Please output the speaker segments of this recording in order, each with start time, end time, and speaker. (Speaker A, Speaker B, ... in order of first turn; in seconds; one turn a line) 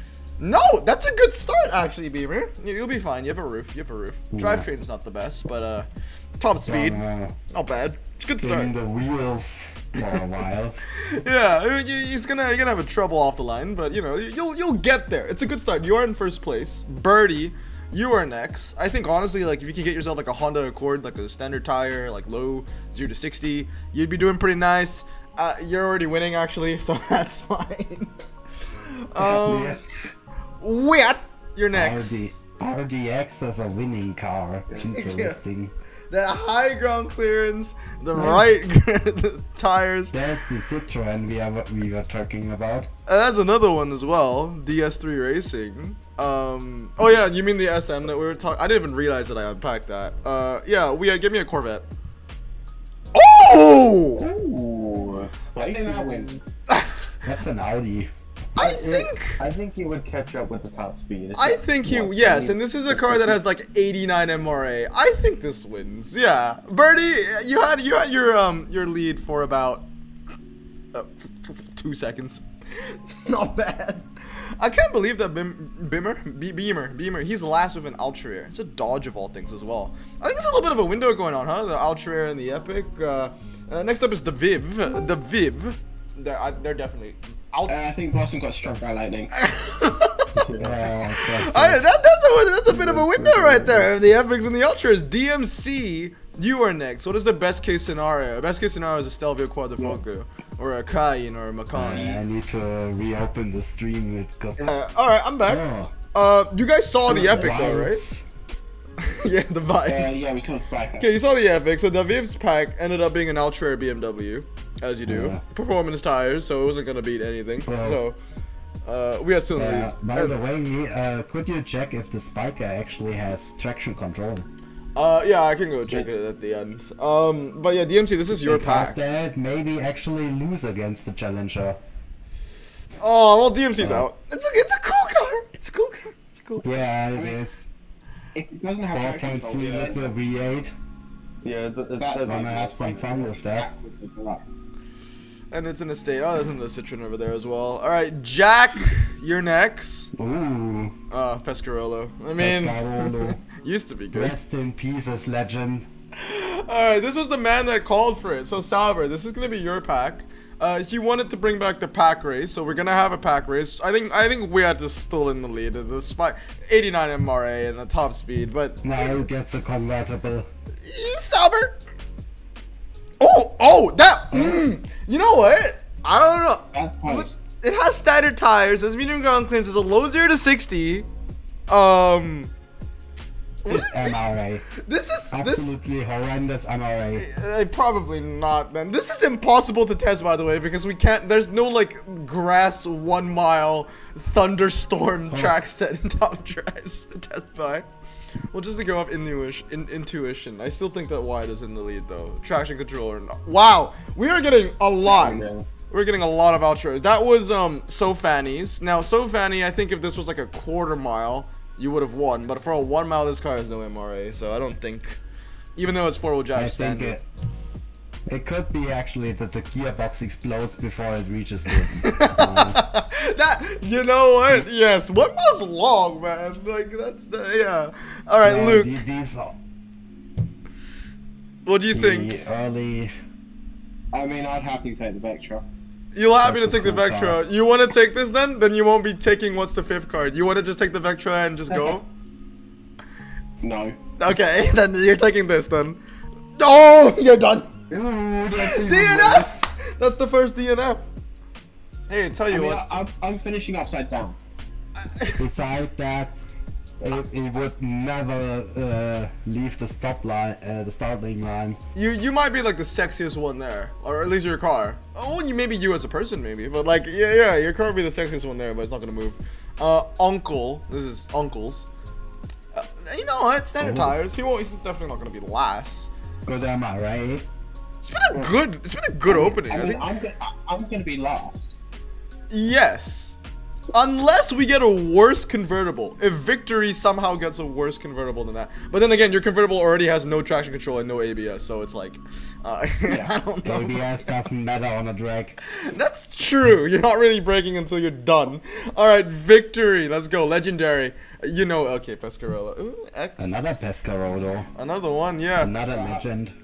Speaker A: 0.4-7.0
Speaker B: 4.3-4.7
Speaker B: 6.7-7.3
Speaker A: 7.5-8.7
Speaker B: 8.3-10.8
Speaker A: 11.0-28.2
Speaker A: 28.8-29.8
Speaker B: 29.2-30.1
Speaker A: 30.6-32.3
Speaker B: 31.7-35.7
Speaker A: 34.8-35.4
Speaker A: 36.1-40.2
Speaker B: 38.1-38.4
Speaker B: 40.1-42.9
Speaker A: 43.1-51.9
Speaker A: 53.1-54.2
Speaker C: 54.2-56.4
Speaker D: 55.6-56.4
Speaker B: 57.2-58.1
Speaker A: 58.6-59.4
Speaker C: 58.6-63.4
Speaker A: 61.4-69.9
Speaker A: 70.9-87.8
Speaker D: 87.7-89.3
Speaker A: 89.4-90.4
Speaker C: 90.4-90.8
Speaker B: 90.6-91.8
Speaker A: 91.2-102.2
Speaker C: 92.7-93.9
Speaker B: 101.7-104.6
Speaker D: 101.9-102.2
Speaker A: 104.6-108.0
Speaker B: 105.4-105.9
Speaker B: 107.1-108.2
Speaker D: 107.1-107.6
Speaker A: 109.0-110.2
Speaker D: 109.8-111.1
Speaker A: 111.0-118.2
Speaker B: 115.1-115.4
Speaker B: 117.6-118.0
Speaker A: 118.8-120.3
Speaker B: 119.6-124.5
Speaker A: 125.0-129.0
Speaker B: 128.3-131.8
Speaker A: 133.0-136.8
Speaker B: 133.8-134.1
Speaker B: 136.6-137.7
Speaker D: 138.3-140.1
Speaker B: 138.9-140.7
Speaker C: 141.4-142.6
Speaker D: 142.0-144.4
Speaker B: 142.2-143.7
Speaker A: 145.5-150.1
Speaker B: 150.1-150.9
Speaker A: 151.1-154.4
Speaker B: 152.4-153.4
Speaker B: 154.1-155.9
Speaker A: 156.2-169.2
Speaker B: 168.8-170.5
Speaker A: 170.8-171.8
Speaker A: 173.2-181.1
Speaker B: 174.3-174.7
Speaker D: 176.7-177.3
Speaker A: 181.7-182.5
Speaker A: 183.6-185.8
Speaker B: 183.7-184.7
Speaker B: 185.3-187.3
Speaker A: 187.2-197.9
Speaker B: 195.3-195.6
Speaker A: 198.5-215.2
Speaker D: 205.1-205.7
Speaker A: 215.8-217.2
Speaker B: 216.6-217.2
Speaker B: 218.3-222.8
Speaker A: 222.0-229.0
Speaker B: 228.4-229.5
Speaker A: 231.7-232.3
Speaker B: 231.9-233.1
Speaker D: 234.1-235.7
Speaker A: 236.1-242.1
Speaker B: 236.4-237.4
Speaker D: 243.6-244.0
Speaker A: 244.2-246.0
Speaker A: 246.6-247.7
Speaker B: 247.9-249.6
Speaker A: 248.6-251.0
Speaker A: 252.1-252.9
Speaker D: 252.5-254.4
Speaker A: 255.1-255.4
Speaker B: 255.4-256.4
Speaker B: 257.0-261.8
Speaker A: 261.9-271.9
Speaker A: 272.7-276.1
Speaker B: 273.8-274.2
Speaker B: 276.5-277.5
Speaker A: 278.1-280.0
Speaker D: 279.3-281.8
Speaker A: 282.5-283.4
Speaker A: 283.9-294.1
Speaker B: 293.6-295.6
Speaker A: 295.7-303.7
Speaker B: 303.4-304.7
Speaker A: 304.7-305.7
Speaker B: 305.6-306.6
Speaker D: 305.9-306.2